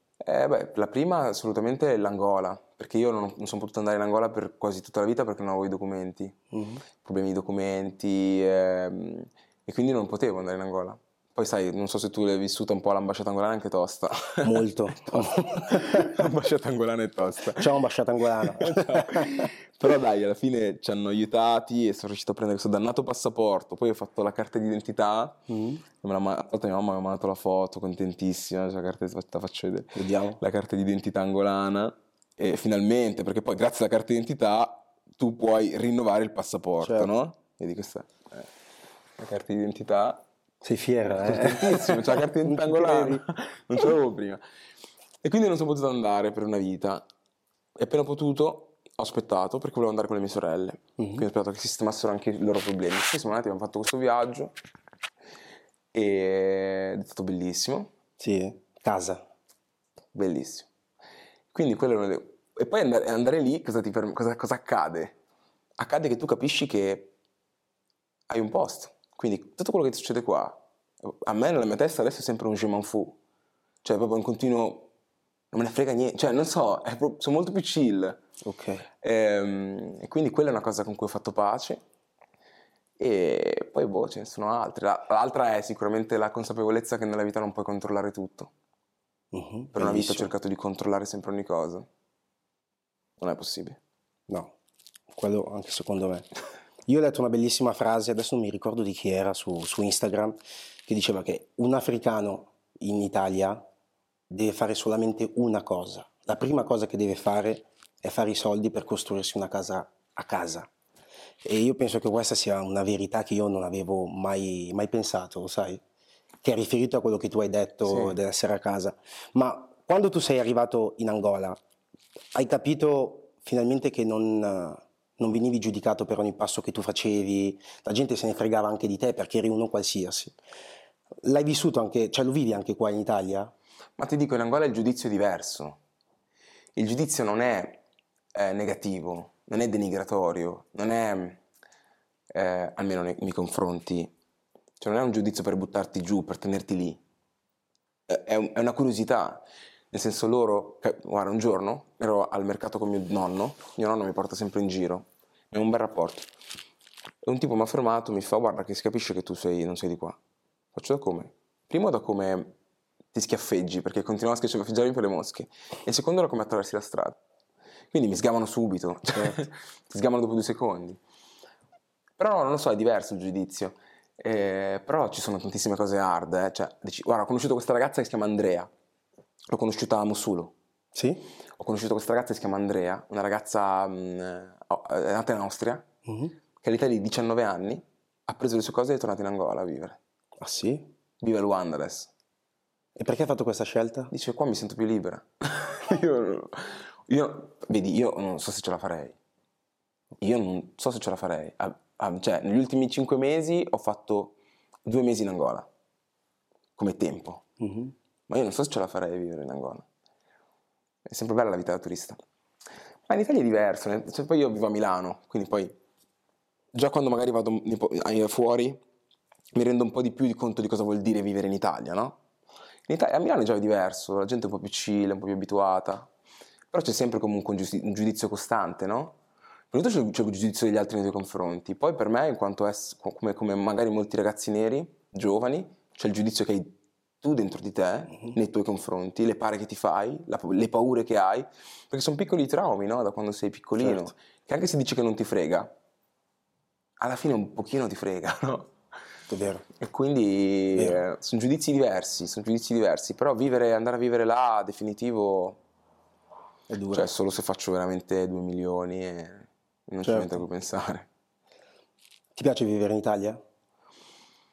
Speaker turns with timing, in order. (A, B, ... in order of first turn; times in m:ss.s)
0:00.2-0:06.4 A
0:06.5-0:06.8 B
0:07.0-0:17.8 A
0:14.4-0:16.3 B
0:17.6-0:19.5 B
0:18.4-0:25.4 A
0:25.5-0:25.8 B
0:25.9-0:38.5 A
0:30.0-0:30.4 B
0:36.8-0:37.1 B
0:39.2-0:40.2 A
0:40.6-0:43.2 B
0:41.2-0:44.4 A
0:45.2-0:47.0 A
0:47.8-0:54.5 A
0:51.0-0:51.2 B
0:55.9-0:57.9 A
0:58.2-0:59.2 B
1:00.1-1:00.7 A
1:01.5-1:05.2 A
1:05.8-1:07.1 A
1:08.3-1:13.2 A
1:13.8-1:14.9 A
1:15.5-1:18.2 A
1:18.4-1:18.9 B
1:19.0-1:21.8 A
1:23.0-1:28.5 A
1:29.3-1:30.3 B
1:29.7-1:31.9 A
1:33.2-1:33.8 A
1:35.1-1:36.3 B
1:36.9-1:43.6 B
1:44.3-1:50.7 B
1:51.4-1:55.8 B
1:56.4-2:01.6 B
1:57.9-1:58.2 A
2:02.3-2:10.4 B
2:11.2-2:13.5 B
2:14.0-2:15.8 A
2:16.8-2:17.8 A
2:18.3-2:21.4 A
2:22.3-2:24.1 A
2:24.8-2:27.0 A
2:28.1-2:36.3 A
2:37.2-2:40.2 A
2:40.7-2:42.5 A
2:43.1-2:47.2 A
2:47.9-2:51.0 A
2:52.2-2:58.7 A
2:59.5-3:00.5 A
3:01.0-3:01.3 B
3:01.6-3:05.9 A
3:06.1-3:06.4 B
3:06.6-3:10.0 A
3:10.4-3:10.9 B
3:11.2-3:12.1 A
3:13.0-3:14.1 B
3:14.1-3:19.2 A
3:20.2-3:25.7 A
3:26.8-3:27.5 A
3:27.6-3:27.9 B
3:28.3-3:29.8 A
3:31.1-3:32.2 A
3:33.1-3:35.8 A
3:36.7-3:38.8 A
3:39.5-3:42.2 A
3:42.9-3:46.1 A
3:46.7-3:49.2 A
3:49.7-4:05.7 A
4:03.8-4:04.1 B
4:07.0-4:08.7 A
4:09.3-4:09.6 B
4:09.8-4:15.6 A
4:10.8-4:11.0 B
4:16.7-4:17.1 B
4:16.9-4:21.1 A
4:20.0-4:20.4 B
4:22.4-4:23.4 B